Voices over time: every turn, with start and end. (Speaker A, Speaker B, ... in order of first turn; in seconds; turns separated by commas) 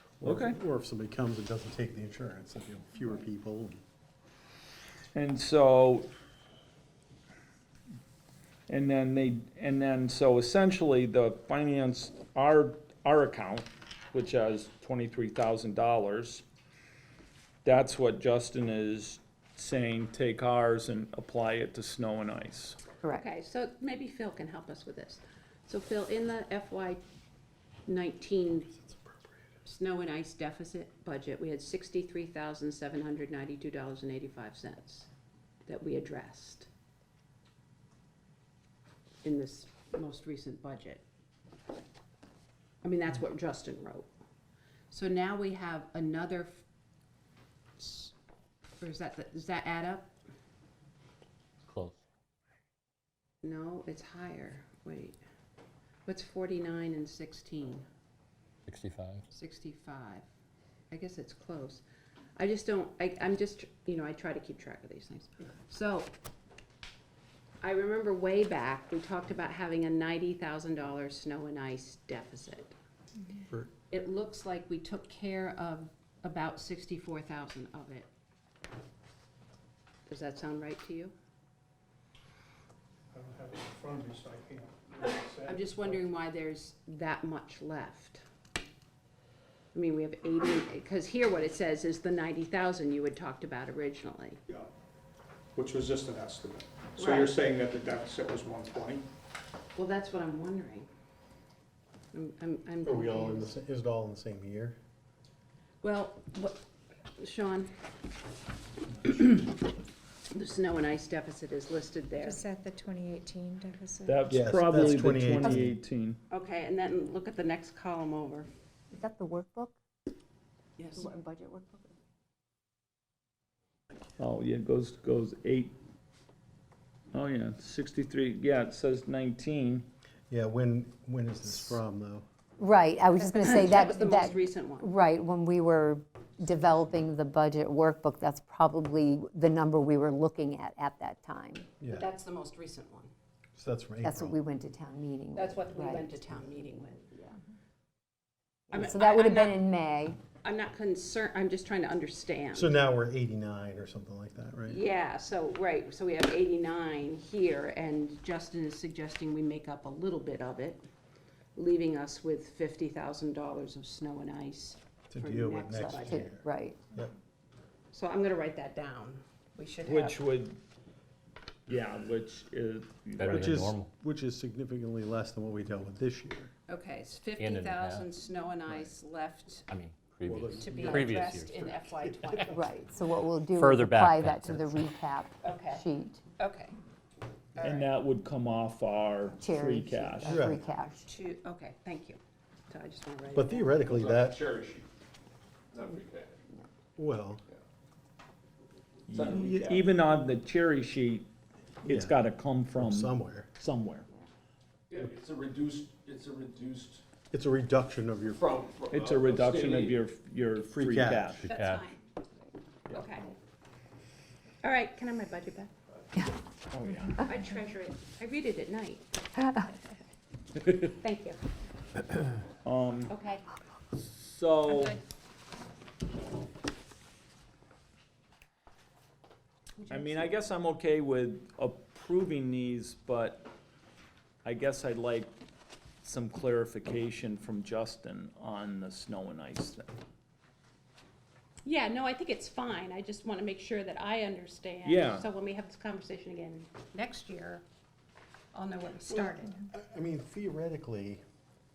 Speaker A: 0.2-3.8, Speaker B: 0.2-0.6, Speaker B: 5.1-6.1, Speaker B: 8.7-16.4, Speaker B: 17.6-22.8, Speaker C: 23.1-27.0, Speaker C: 27.9-28.7, Speaker C: 29.6-35.1, Speaker C: 35.7-36.7, Speaker C: 39.2-41.0, Speaker C: 42.8-44.1, Speaker C: 44.9-46.6, Speaker C: 47.8-48.1, Speaker C: 48.8-50.1, Speaker D: 51.7-52.0, Speaker C: 53.4-55.2, Speaker C: 56.1-57.9, Speaker D: 58.7-59.2, Speaker C: 59.3-60.2, Speaker C: 60.9-61.8, Speaker C: 62.4-66.1, Speaker C: 67.6-72.8, Speaker C: 73.9-78.1, Speaker C: 80.1-81.1, Speaker E: 83.1-86.0, Speaker C: 85.5-88.2, Speaker C: 89.7-94.4, Speaker E: 95.6-99.1, Speaker C: 97.0-97.4, Speaker C: 99.8-100.9, Speaker C: 102.1-103.5, Speaker A: 102.8-104.8, Speaker C: 105.8-106.6, Speaker C: 107.2-107.7, Speaker C: 109.0-109.5, Speaker C: 110.3-112.4, Speaker F: 112.2-114.3, Speaker B: 114.0-116.2, Speaker A: 114.3-115.8, Speaker C: 116.3-118.5, Speaker G: 118.9-119.8, Speaker C: 120.8-121.1, Speaker G: 121.0-122.0, Speaker B: 124.2-125.7, Speaker B: 127.1-129.9, Speaker A: 130.3-132.2, Speaker G: 132.6-141.7, Speaker C: 133.2-134.9, Speaker A: 141.8-142.1, Speaker C: 141.9-143.1, Speaker A: 143.6-144.4, Speaker G: 144.0-146.1, Speaker C: 145.3-147.1, Speaker G: 148.7-150.2, Speaker C: 148.7-149.6, Speaker C: 150.4-152.8, Speaker A: 152.5-154.8, Speaker C: 154.7-160.8, Speaker C: 161.6-166.3, Speaker A: 165.1-167.1, Speaker G: 165.8-166.8, Speaker C: 167.9-170.3, Speaker B: 169.8-170.6, Speaker B: 171.7-173.6, Speaker D: 173.2-173.9, Speaker A: 173.3-176.5, Speaker C: 176.7-179.7, Speaker D: 177.4-178.1, Speaker D: 179.7-182.6, Speaker A: 180.3-182.4, Speaker C: 180.6-182.7, Speaker G: 182.5-186.2, Speaker D: 183.5-184.9, Speaker C: 185.4-186.8, Speaker C: 187.6-187.9, Speaker B: 187.6-190.4, Speaker G: 189.4-191.1, Speaker A: 190.2-190.6, Speaker C: 191.1-192.2, Speaker C: 192.7-193.8, Speaker A: 193.3-194.4, Speaker H: 193.8-194.9, Speaker H: 195.7-196.4, Speaker A: 197.0-197.4, Speaker H: 199.1-199.9, Speaker B: 199.1-201.3, Speaker A: 199.3-199.7, Speaker B: 201.8-204.1, Speaker A: 201.8-202.2, Speaker A: 202.7-203.5, Speaker H: 204.9-207.0, Speaker A: 207.3-208.4, Speaker H: 208.3-210.0, Speaker B: 208.9-211.5, Speaker A: 210.8-211.4, Speaker D: 211.4-211.9, Speaker C: 211.5-212.0, Speaker C: 212.9-213.3, Speaker C: 214.6-215.7, Speaker B: 216.7-217.3, Speaker C: 217.2-219.1, Speaker C: 220.8-221.4, Speaker B: 222.6-223.1, Speaker C: 223.1-223.4, Speaker B: 223.9-225.0, Speaker C: 229.8-230.3, Speaker B: 229.9-233.5, Speaker B: 234.4-235.3, Speaker B: 236.0-239.9, Speaker C: 241.6-247.6, Speaker B: 244.8-245.3, Speaker C: 248.5-249.6, Speaker A: 249.1-251.2